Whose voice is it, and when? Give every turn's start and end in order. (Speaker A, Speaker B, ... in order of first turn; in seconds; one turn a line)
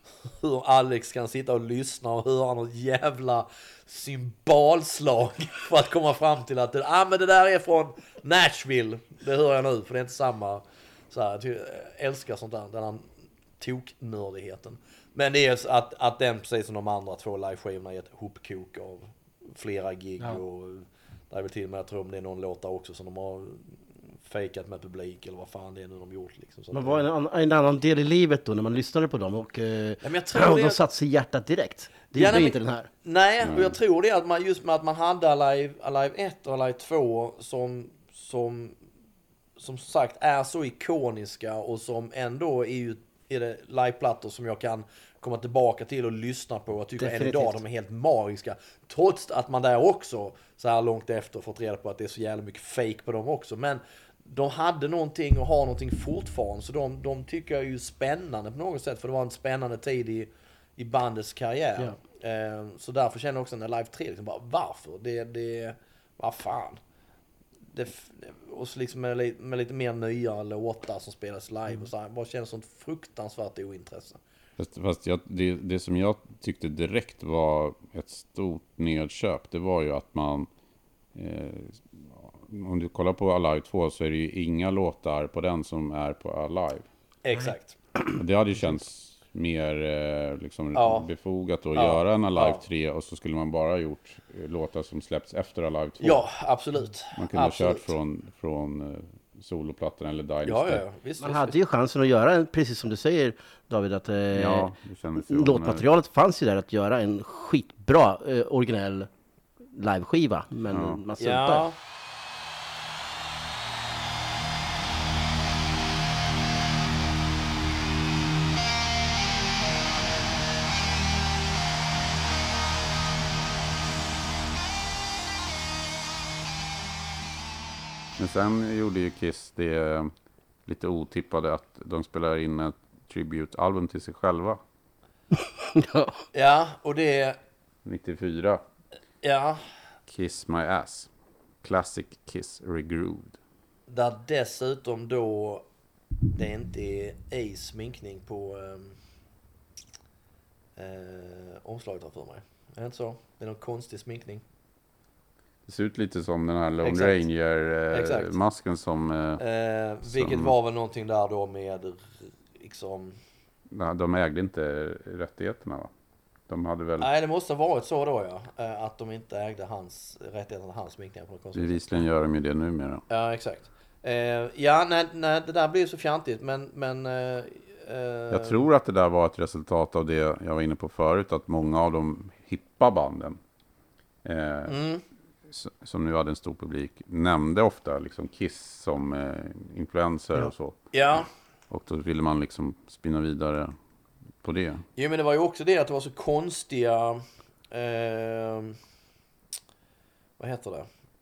Speaker A: 0.2-27.0
Speaker B: 26.7-32.9
Speaker A: 30.0-30.8
Speaker A: 32.1-38.8
Speaker C: 33.4-33.7
Speaker A: 39.6-66.8
Speaker B: 47.0-47.6
Speaker A: 67.7-74.2
Speaker C: 74.6-80.5
Speaker C: 81.1-86.9
Speaker A: 87.2-87.8
Speaker C: 88.1-96.2
Speaker A: 90.7-91.1
Speaker A: 91.7-92.6
Speaker A: 96.0-97.9
Speaker C: 97.1-100.8
Speaker A: 100.4-101.5
Speaker B: 101.2-109.1
Speaker C: 104.3-105.9
Speaker B: 109.7-111.7
Speaker C: 110.7-111.0
Speaker A: 111.2-111.8
Speaker C: 128.2-130.1
Speaker C: 130.7-134.6
Speaker B: 135.3-136.2
Speaker A: 136.3-137.4
Speaker C: 137.8-138.6
Speaker A: 139.2-139.7
Speaker C: 140.1-141.1
Speaker C: 141.6-143.3
Speaker A: 143.9-145.6
Speaker A: 146.3-149.0
Speaker A: 150.8-154.4
Speaker C: 155.7-159.4
Speaker A: 156.8-157.2
Speaker A: 157.9-158.3
Speaker A: 159.4-163.2
Speaker C: 160.0-160.5
Speaker C: 163.7-165.9
Speaker C: 166.5-167.1
Speaker A: 167.0-172.1
Speaker C: 171.5-173.0
Speaker A: 173.1-178.6
Speaker C: 178.3-183.4
Speaker C: 184.2-184.8
Speaker A: 184.7-185.0
Speaker C: 185.5-193.7
Speaker A: 190.9-191.3
Speaker C: 194.4-194.8
Speaker A: 194.9-198.8
Speaker A: 200.4-200.9